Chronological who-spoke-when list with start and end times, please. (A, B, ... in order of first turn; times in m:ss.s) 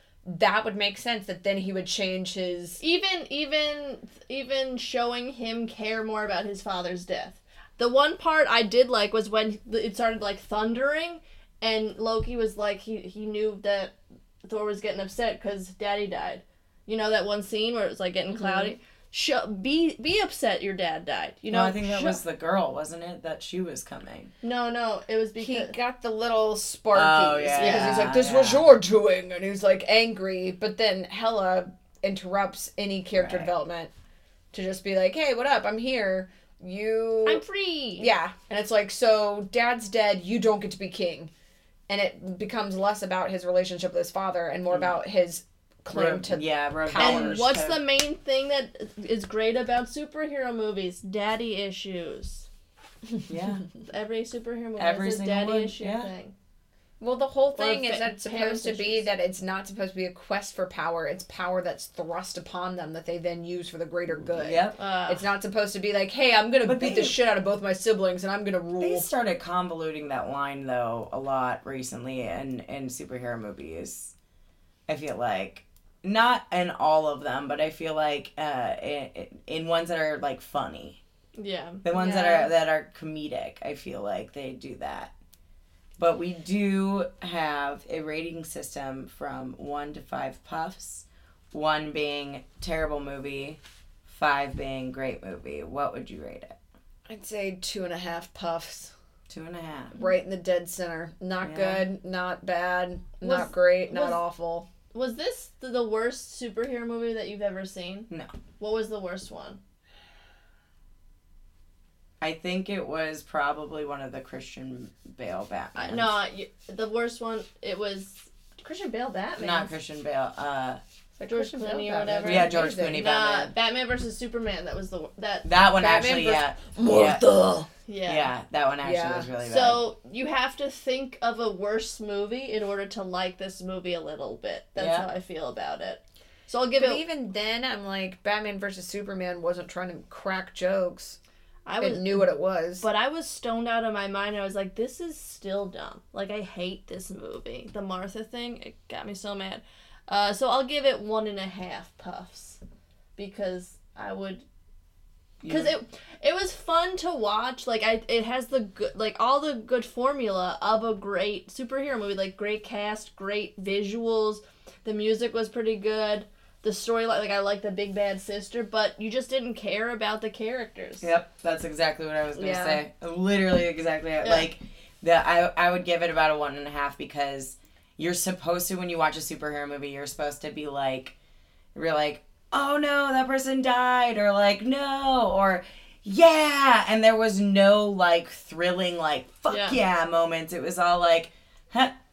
0:00.2-0:02.8 A
0:02.8-0:22.2 B
0:18.4-0:18.7 A
0:21.5-0:24.3 C
0:24.4-0:25.7 B
0:25.4-0:33.9 A
0:26.9-0:28.7 C
0:27.6-0:28.0 B
0:33.1-0:33.5 C
0:34.5-0:37.4 A
0:37.2-0:38.1 B
0:38.0-0:41.3 A
0:41.9-0:47.5 A
0:45.9-0:47.8 C
0:47.0-0:52.5 B
0:53.3-0:53.6 C
0:53.9-0:56.3 B
0:54.8-0:56.1 C
0:57.0-1:09.1 A
0:57.5-0:59.1 B
1:04.1-1:04.8 C
1:04.8-1:05.2 B
1:06.6-1:07.1 C
1:08.8-1:14.1 C
1:14.9-1:21.0 C
1:21.4-1:22.4 B
1:21.8-1:25.1 C
1:21.9-1:22.5 A
1:26.0-1:36.5 C
1:37.1-1:38.9 A
1:39.3-1:40.0 C
1:40.0-1:44.7 A
1:41.4-1:41.9 C
1:43.2-1:44.2 B
1:44.9-1:48.1 B
1:48.6-1:49.6 B
1:52.2-1:56.2 C
1:55.8-1:59.7 B
1:59.4-2:00.8 C
2:01.2-2:03.0 A
2:01.3-2:05.5 B
2:02.2-2:03.5 C
2:05.4-2:07.2 C
2:05.7-2:07.7 A
2:07.9-2:08.3 B
2:08.0-2:09.8 C
2:08.8-2:09.3 A
2:09.4-2:17.0 B
2:14.8-2:15.1 C
2:16.8-2:21.2 A
2:21.6-2:22.3 B
2:21.8-2:22.8 A
2:22.8-2:32.6 B
2:33.2-2:34.4 B
2:35.4-2:35.8 C
2:35.5-2:51.1 B
2:51.0-3:01.1 C
2:52.3-2:52.8 A
2:54.2-2:54.5 B
3:01.7-3:12.0 C
3:09.5-3:09.8 B